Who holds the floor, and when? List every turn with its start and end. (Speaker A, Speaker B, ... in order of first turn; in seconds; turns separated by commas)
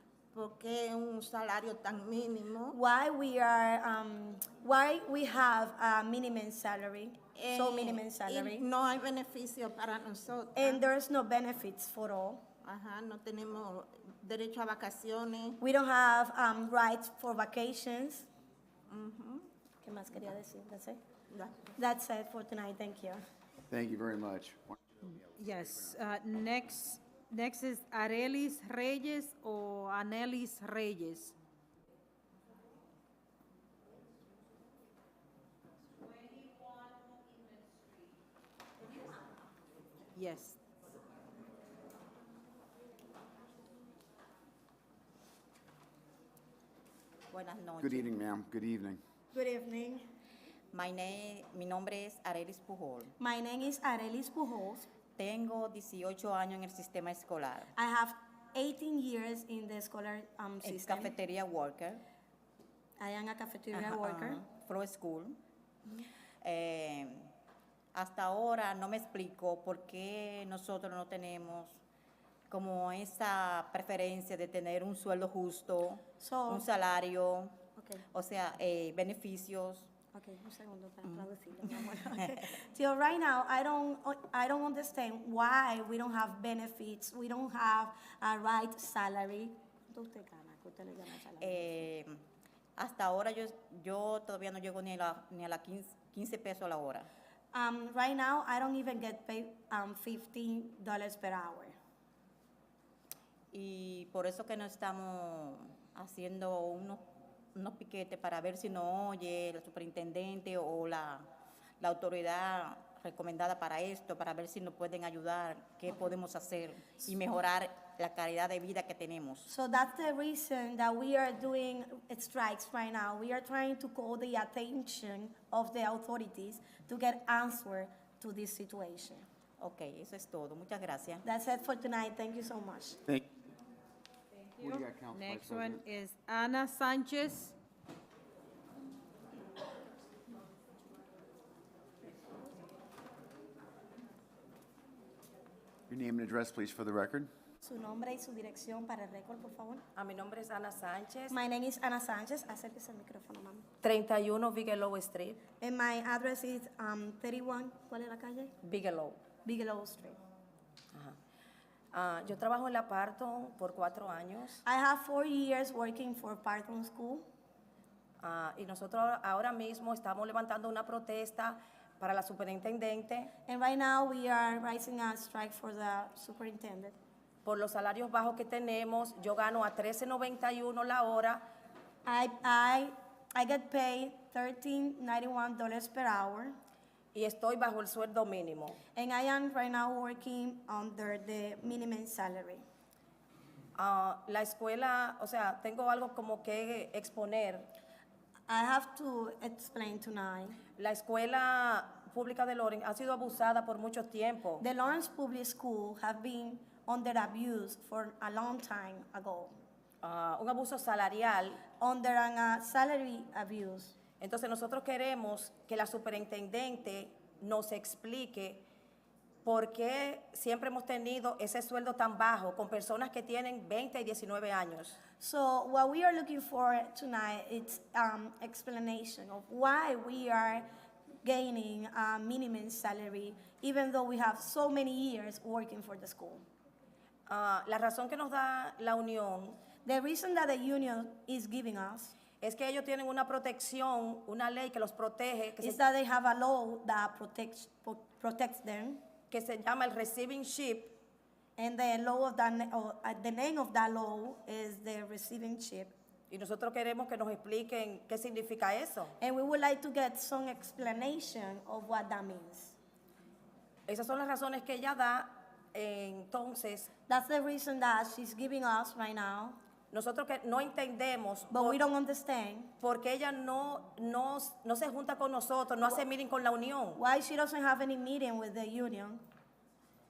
Speaker A: 0.3-2.8, Speaker B: 2.7-8.7, Speaker A: 7.3-10.8, Speaker B: 10.5-12.4, Speaker A: 12.6-15.6, Speaker B: 15.6-18.3, Speaker A: 18.9-19.5, Speaker B: 19.8-21.0, Speaker A: 21.3-21.7, Speaker B: 21.8-23.2, Speaker C: 23.7-24.8, Speaker D: 25.0-31.3, Speaker D: 36.0-37.9, Speaker D: 40.1-40.6, Speaker E: 47.3-48.1, Speaker C: 47.8-49.0, Speaker B: 49.3-50.0, Speaker E: 50.7-53.1, Speaker B: 53.2-54.9, Speaker E: 55.2-57.7, Speaker B: 57.8-61.1, Speaker E: 60.6-62.0, Speaker B: 63.0-64.4, Speaker E: 63.7-65.4, Speaker E: 66.4-67.3, Speaker E: 67.9-71.8, Speaker E: 72.5-77.6, Speaker B: 76.2-76.7, Speaker B: 77.8-78.0, Speaker E: 78.1-79.9, Speaker B: 80.1-91.7, Speaker E: 91.4-92.2, Speaker E: 92.8-97.1, Speaker B: 97.5-101.8, Speaker E: 103.5-111.3, Speaker E: 111.8-119.5, Speaker B: 119.5-129.2, Speaker E: 129.6-131.2, Speaker B: 131.2-133.0, Speaker D: 134.6-137.6, Speaker C: 134.6-135.8, Speaker C: 145.9-147.3, Speaker B: 147.6-149.8, Speaker F: 149.9-151.3, Speaker B: 151.3-153.7, Speaker F: 153.8-155.4, Speaker B: 155.6-158.5, Speaker F: 158.6-159.2, Speaker B: 159.4-160.2, Speaker F: 161.9-164.6, Speaker B: 164.6-167.2, Speaker F: 168.2-173.3, Speaker B: 173.4-177.0, Speaker F: 177.4-181.4, Speaker B: 182.0-186.6, Speaker F: 187.1-188.8, Speaker B: 188.9-192.6, Speaker F: 193.7-197.7, Speaker B: 198.5-200.6, Speaker F: 200.8-204.6, Speaker B: 204.6-209.6, Speaker F: 210.0-211.6, Speaker B: 211.8-214.0, Speaker F: 214.2-218.6, Speaker F: 219.4-225.0, Speaker B: 225.2-230.7, Speaker B: 231.2-236.4, Speaker F: 237.3-239.6, Speaker B: 239.8-242.1, Speaker F: 242.4-245.8, Speaker B: 245.6-249.0, Speaker F: 249.3-251.0, Speaker B: 251.6-255.9, Speaker F: 256.3-259.1, Speaker B: 259.2-262.8, Speaker F: 263.9-266.9, Speaker B: 267.1-269.6, Speaker F: 269.9-271.8, Speaker B: 271.5-272.7, Speaker F: 272.8-277.0, Speaker B: 276.9-279.2